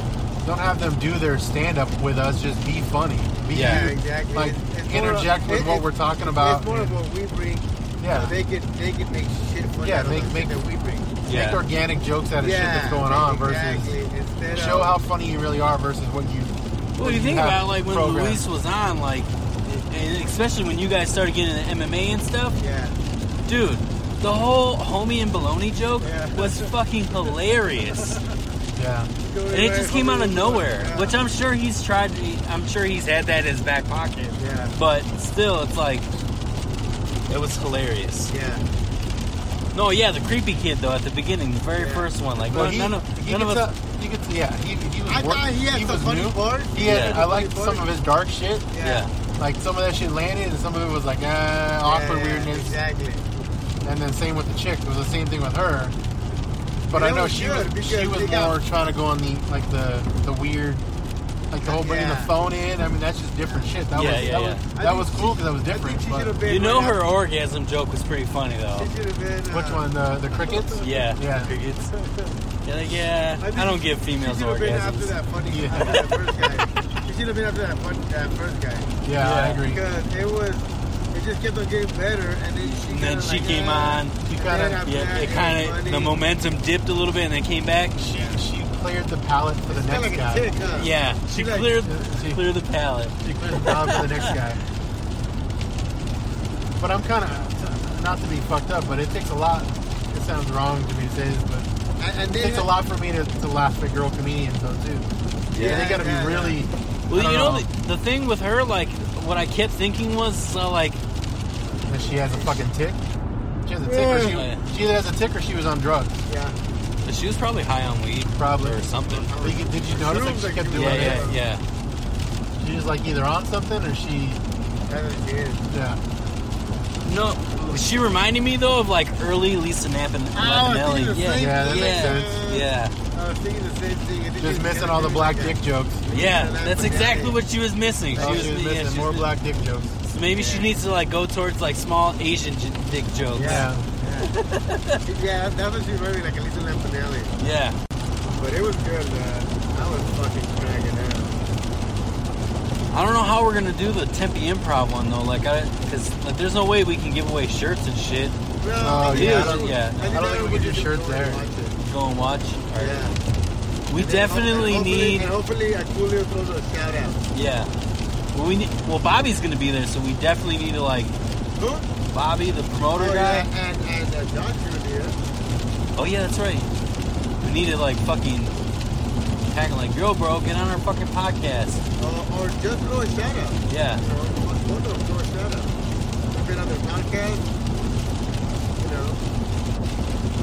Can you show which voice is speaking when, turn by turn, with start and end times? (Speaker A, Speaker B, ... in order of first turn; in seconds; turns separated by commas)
Speaker A: 0.4-7.0, Speaker B: 3.5-3.9, Speaker C: 3.5-11.2, Speaker A: 8.0-8.4, Speaker A: 9.8-10.6, Speaker B: 11.3-11.6, Speaker A: 11.3-13.9, Speaker C: 12.4-15.0, Speaker A: 14.5-18.4, Speaker B: 17.0-22.6, Speaker C: 22.6-23.0, Speaker B: 23.5-28.2, Speaker C: 26.0-27.4, Speaker C: 27.9-28.4, Speaker A: 28.8-29.1, Speaker C: 29.2-31.2, Speaker B: 29.5-36.1, Speaker C: 34.4-34.8, Speaker B: 37.3-38.3, Speaker C: 38.3-38.7, Speaker B: 39.7-43.7, Speaker C: 41.7-42.1, Speaker A: 42.5-48.7, Speaker C: 45.1-47.9, Speaker B: 46.8-47.2, Speaker C: 48.7-49.1, Speaker B: 48.8-49.1, Speaker A: 49.4-52.8, Speaker C: 51.8-53.5, Speaker A: 53.8-56.0, Speaker A: 56.9-60.8, Speaker C: 56.9-58.6, Speaker A: 61.5-66.4, Speaker C: 61.6-62.3, Speaker B: 63.9-64.7, Speaker C: 64.7-67.0, Speaker B: 66.4-68.9, Speaker C: 68.7-71.1, Speaker A: 69.5-71.5, Speaker B: 70.8-71.9, Speaker C: 71.9-72.4, Speaker B: 72.6-75.2, Speaker C: 73.4-79.0, Speaker A: 75.5-76.1, Speaker A: 79.0-79.8, Speaker B: 79.2-79.6, Speaker C: 79.6-86.2, Speaker B: 82.6-84.2, Speaker A: 84.2-84.8, Speaker B: 84.8-88.0, Speaker A: 88.0-90.5, Speaker C: 88.0-88.4, Speaker C: 89.7-91.8, Speaker B: 90.8-94.4, Speaker A: 91.8-92.4, Speaker A: 93.2-94.6, Speaker A: 96.8-101.7, Speaker C: 102.0-102.7, Speaker A: 102.3-107.7, Speaker B: 105.5-105.9, Speaker C: 105.6-106.6, Speaker B: 107.1-111.0, Speaker A: 111.9-113.0, Speaker C: 111.9-112.6, Speaker A: 113.6-116.2, Speaker C: 113.8-114.4, Speaker B: 113.9-114.6, Speaker C: 116.3-116.6, Speaker B: 117.0-119.4, Speaker A: 118.4-118.8, Speaker C: 119.0-121.4, Speaker A: 119.4-121.3, Speaker B: 120.7-121.6, Speaker A: 122.6-124.4, Speaker C: 124.9-125.7, Speaker A: 125.7-126.0, Speaker B: 127.0-132.9, Speaker C: 130.3-137.4, Speaker A: 131.3-132.4, Speaker A: 134.4-136.0, Speaker B: 136.1-139.3, Speaker C: 138.1-138.6, Speaker A: 138.2-140.0, Speaker B: 140.0-143.7, Speaker C: 140.3-140.7, Speaker C: 143.3-144.3, Speaker A: 143.4-143.9, Speaker B: 144.2-145.0, Speaker C: 145.0-147.4, Speaker B: 147.4-147.8, Speaker C: 148.3-151.5, Speaker B: 152.9-158.4, Speaker C: 158.6-161.8, Speaker A: 158.8-161.4, Speaker B: 159.1-160.2, Speaker B: 161.8-163.0, Speaker C: 162.7-163.2, Speaker B: 163.9-165.3, Speaker C: 163.9-167.3, Speaker B: 167.3-167.7, Speaker B: 168.3-171.2, Speaker C: 171.6-171.9, Speaker B: 172.1-173.5, Speaker C: 172.9-175.2, Speaker B: 175.9-176.7, Speaker B: 177.4-178.6, Speaker B: 179.5-181.8, Speaker C: 182.0-185.8, Speaker B: 183.7-184.1, Speaker C: 186.3-187.5, Speaker C: 188.8-189.2